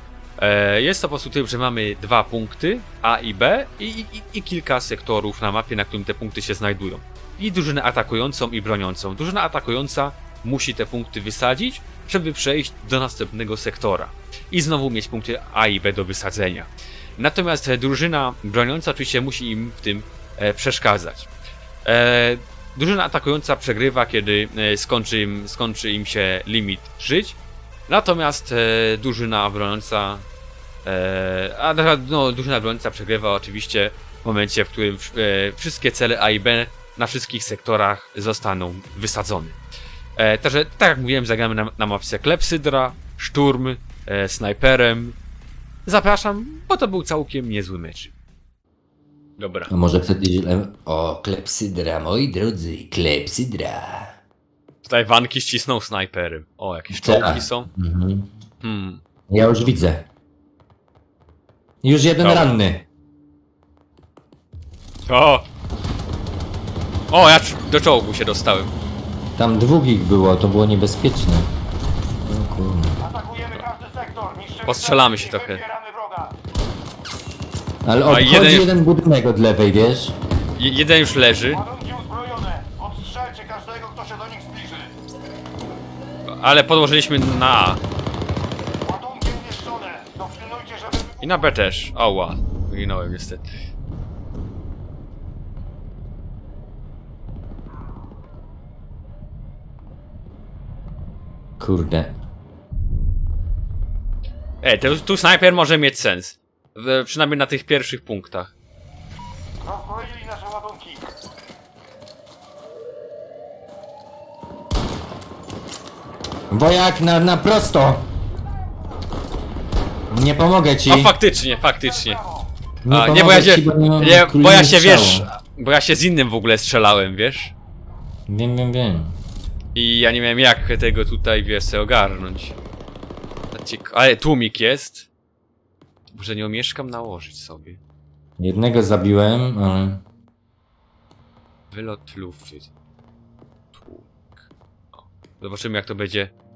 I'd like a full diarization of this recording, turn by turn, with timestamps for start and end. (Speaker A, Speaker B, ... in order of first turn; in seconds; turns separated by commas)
Speaker A: 0.4-21.3, Speaker A: 21.8-27.4, Speaker A: 27.9-30.2, Speaker A: 30.8-39.6, Speaker A: 40.2-45.2, Speaker A: 45.8-48.1, Speaker A: 49.4-49.7, Speaker B: 49.7-54.1, Speaker A: 54.8-57.7, Speaker B: 56.9-58.3, Speaker A: 58.6-59.0, Speaker B: 59.3-60.0, Speaker B: 61.8-62.8, Speaker A: 62.2-62.5, Speaker A: 65.0-65.5, Speaker A: 67.1-68.7, Speaker B: 69.4-71.5, Speaker B: 72.2-73.0, Speaker C: 73.0-76.3, Speaker A: 74.7-75.6, Speaker B: 77.8-80.2, Speaker A: 78.0-78.7, Speaker A: 80.5-81.6, Speaker C: 81.5-84.9, Speaker A: 86.3-87.8, Speaker C: 88.8-91.2, Speaker A: 91.2-93.5, Speaker B: 101.6-102.2, Speaker A: 104.6-108.5, Speaker C: 109.6-111.1, Speaker B: 116.5-118.1, Speaker B: 120.1-121.1, Speaker A: 120.9-122.2, Speaker B: 122.8-125.2, Speaker A: 122.9-127.5, Speaker B: 128.3-129.2, Speaker A: 129.7-132.6, Speaker A: 133.5-135.1, Speaker A: 136.1-137.8, Speaker B: 138.4-140.0, Speaker A: 141.7-142.7, Speaker A: 143.7-144.3, Speaker A: 144.9-146.3